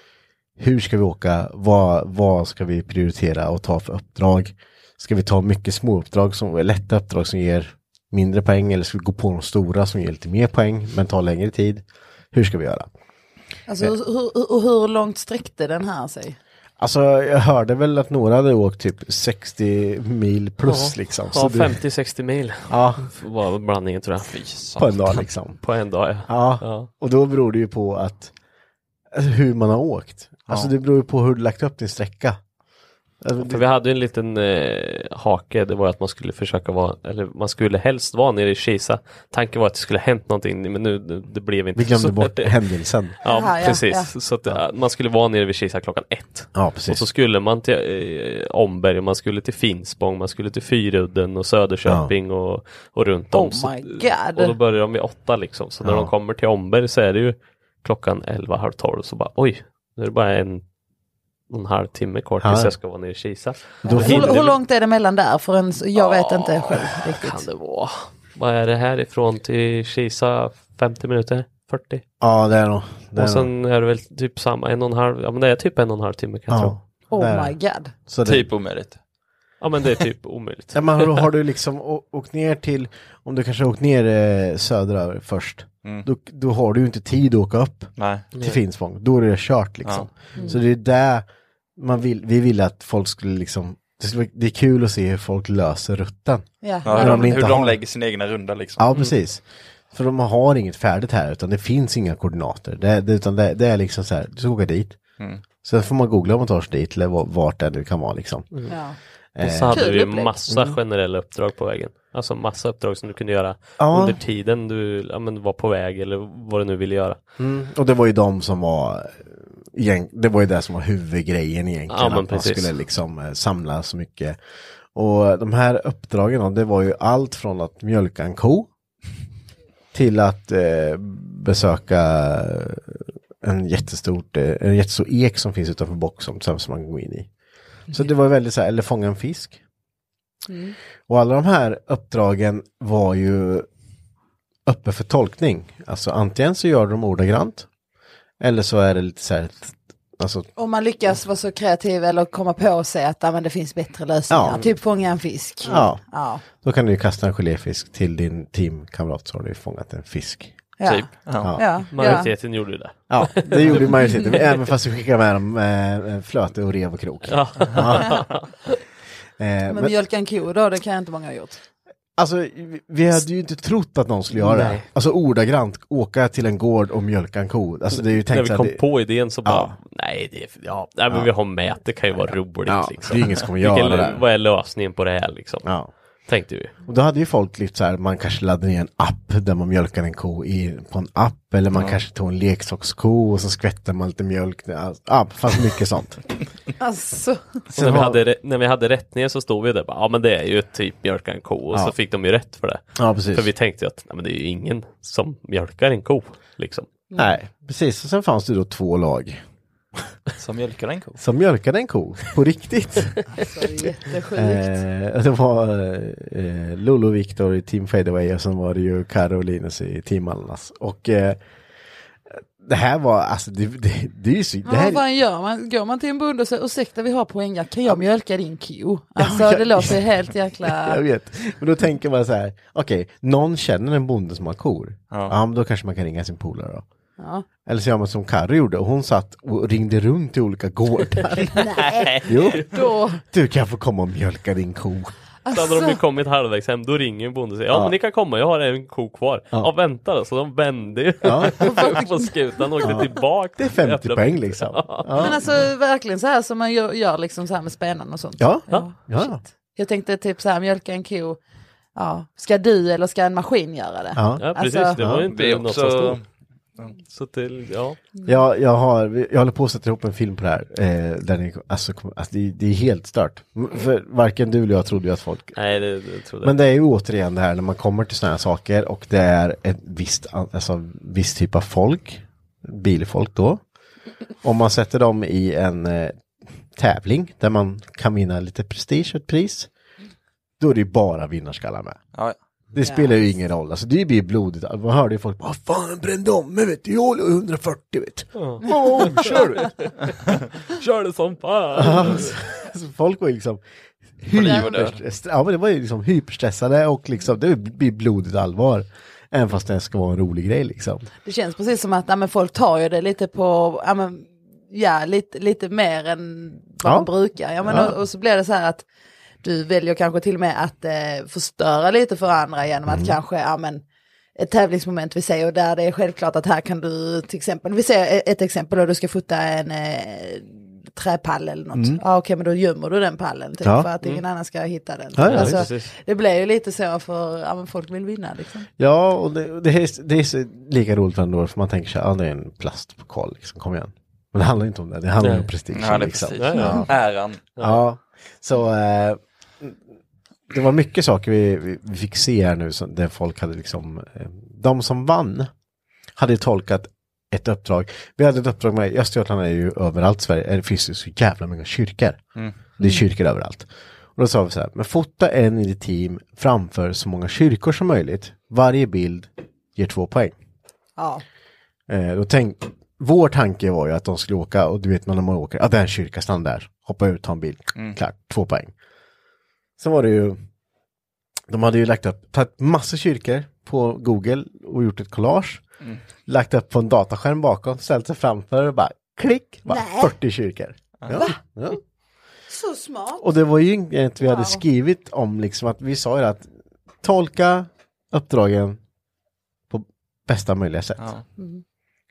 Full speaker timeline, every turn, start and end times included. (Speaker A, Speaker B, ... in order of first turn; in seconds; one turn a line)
Speaker A: 0.6-12.9
Speaker B: 13.7-16.4
Speaker A: 16.8-21.8
Speaker C: 20.6-24.3
Speaker A: 22.7-23.1
Speaker D: 24.2-25.2
Speaker A: 24.8-25.6
Speaker C: 25.6-26.9
Speaker A: 26.3-28.3
Speaker A: 29.1-32.4
Speaker A: 33.2-33.6
Speaker C: 33.4-42.5
Speaker A: 41.7-43.1
Speaker C: 43.2-60.6
Speaker B: 43.2-44.1
Speaker A: 46.5-47.0
Speaker A: 51.9-52.1
Speaker B: 53.3-54.5
Speaker A: 55.8-56.1
Speaker C: 61.5-64.6
Speaker A: 62.4-62.7
Speaker A: 63.8-64.4
Speaker B: 63.8-67.4
Speaker C: 66.0-72.0
Speaker A: 72.2-73.5
Speaker C: 73.2-76.7
Speaker A: 76.5-78.5
Speaker B: 77.1-77.9
Speaker D: 78.2-79.0
Speaker C: 79.6-80.8
Speaker A: 80.7-91.2
Speaker D: 88.0-88.2
Speaker A: 91.8-97.8
Speaker B: 96.6-97.4
Speaker D: 96.8-98.8
Speaker A: 98.8-105.0
Speaker A: 105.6-108.5
Speaker B: 108.7-109.0
Speaker A: 109.3-109.9
Speaker C: 109.4-117.2
Speaker B: 109.7-110.3
Speaker A: 110.5-110.8
Speaker A: 113.8-114.2
Speaker A: 117.4-124.4
Speaker C: 121.9-122.7
Speaker A: 124.9-128.7
Speaker A: 129.9-137.3
Speaker A: 137.9-139.6
Speaker B: 140.5-140.8
Speaker A: 141.1-143.7
Speaker A: 144.7-147.7
Speaker A: 148.4-150.5
Speaker B: 150.6-156.4
Speaker A: 154.3-154.7
Speaker A: 155.6-160.6
Speaker B: 160.8-162.3
Speaker D: 160.8-161.5
Speaker A: 161.4-162.2
Speaker C: 161.9-164.3
Speaker A: 163.1-168.4
Speaker C: 167.3-168.5
Speaker A: 169.4-169.9
Speaker B: 169.7-171.6
Speaker A: 172.2-178.8
Speaker C: 174.3-174.9
Speaker C: 177.9-185.7
Speaker A: 179.4-179.8
Speaker A: 182.2-184.2
Speaker A: 185.6-185.9
Speaker C: 186.3-186.7
Speaker A: 186.8-196.2
Speaker B: 196.8-197.6
Speaker C: 197.7-206.9
Speaker A: 197.7-198.2
Speaker A: 202.9-203.5
Speaker A: 207.2-209.4
Speaker D: 210.4-211.2
Speaker A: 211.2-213.2
Speaker B: 213.3-214.8
Speaker A: 214.3-221.4
Speaker A: 222.6-225.0
Speaker B: 224.6-231.0
Speaker A: 229.2-230.0
Speaker A: 230.6-236.8
Speaker B: 237.2-237.4
Speaker A: 237.6-242.7
Speaker B: 241.5-243.2
Speaker D: 241.8-242.4
Speaker A: 243.3-245.2
Speaker B: 245.4-246.0
Speaker C: 245.5-255.2
Speaker A: 247.7-247.9
Speaker A: 251.2-251.8
Speaker B: 251.6-252.3
Speaker A: 252.8-255.4
Speaker B: 255.2-261.4
Speaker A: 258.4-259.4
Speaker B: 261.9-265.0
Speaker A: 264.1-265.3
Speaker C: 264.4-266.2
Speaker D: 265.3-266.2
Speaker C: 267.1-268.0
Speaker A: 268.2-275.6
Speaker C: 275.6-276.5
Speaker A: 276.4-283.6
Speaker A: 284.4-289.7
Speaker A: 290.6-292.0
Speaker A: 292.7-299.9
Speaker B: 292.8-293.1
Speaker C: 298.3-300.0
Speaker C: 300.6-302.3
Speaker A: 301.7-303.6
Speaker A: 304.2-311.1
Speaker D: 304.3-305.0
Speaker B: 311.2-318.9
Speaker A: 316.8-317.1
Speaker A: 317.6-317.9
Speaker B: 319.4-323.8
Speaker A: 322.9-323.2
Speaker B: 324.4-338.7
Speaker A: 331.7-332.0
Speaker A: 333.6-333.9
Speaker A: 335.1-335.7
Speaker C: 335.2-335.9
Speaker A: 338.8-347.0
Speaker C: 345.2-345.5
Speaker D: 345.7-347.4
Speaker C: 346.4-346.9
Speaker B: 346.6-346.8
Speaker C: 347.6-347.8
Speaker A: 347.6-349.8
Speaker A: 350.5-355.5
Speaker A: 356.1-362.2
Speaker A: 362.8-370.4
Speaker B: 362.8-363.0
Speaker B: 371.0-371.2
Speaker A: 371.9-378.7
Speaker A: 379.8-380.4
Speaker A: 381.5-385.6
Speaker A: 386.3-391.8
Speaker B: 389.7-390.1
Speaker B: 391.1-391.4
Speaker B: 392.5-393.2
Speaker A: 393.2-396.5
Speaker B: 394.2-394.6
Speaker A: 397.0-398.8
Speaker A: 399.7-401.1
Speaker D: 401.0-401.2